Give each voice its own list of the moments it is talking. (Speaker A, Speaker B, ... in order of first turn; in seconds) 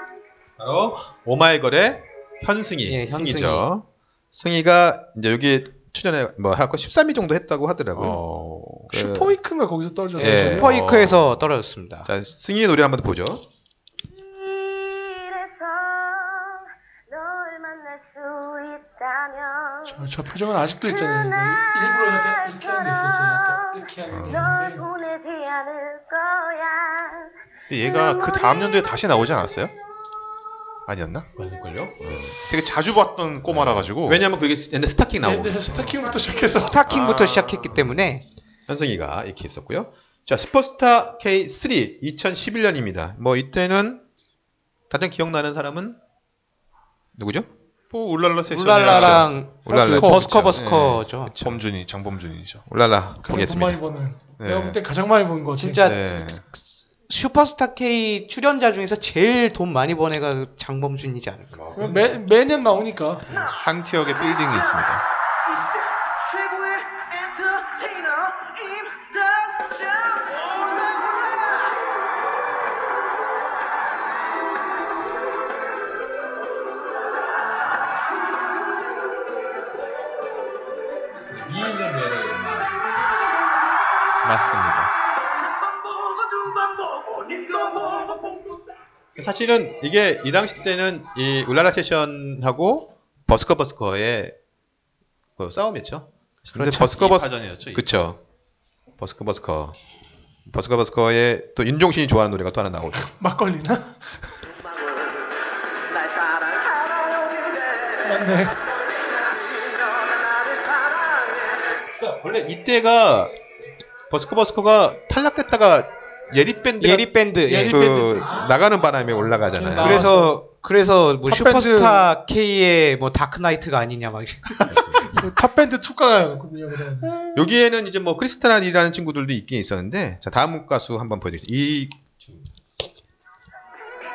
Speaker A: 0.6-8.2, 8.9-9.3, 10.2-11.3, 12.1-13.4, 31.4-32.5, 33.5-36.1, 38.7-44.0, 44.9-46.0, 47.1-47.5, 48.8-50.6, 51.3-51.6, 52.7-53.8, 61.5-62.1, 81.3-83.1, 89.2-94.3, 95.4-98.2, 99.0-99.8, 100.5-103.1, 112.0-113.3, 114.1-117.1, 117.6-120.2, 124.7-125.1, 127.3-132.4
Speaker B: 2.9-3.6, 10.2-12.1, 36.5-38.2, 48.5-51.3, 55.6-61.6, 96.5-96.9, 116.8-117.8, 119.7-124.7
Speaker C: 7.9-8.9, 24.1-24.6, 27.7-29.7, 30.9-31.3, 32.4-34.2, 36.8-37.9, 47.9-49.3, 50.5-52.6, 54.4-54.8, 55.8-56.4, 63.3-65.0, 84.2-84.9, 96.5-98.1
Speaker D: 8.9-10.7, 19.9-24.9, 35.2-36.8, 49.7-50.2, 53.2-55.8, 61.7-63.4, 103.0-104.0, 108.0-108.6, 117.5-118.6, 119.2-120.4, 121.3-122.1, 124.7-127.4
Speaker E: 14.5-16.4, 17.1-19.9, 24.7-27.3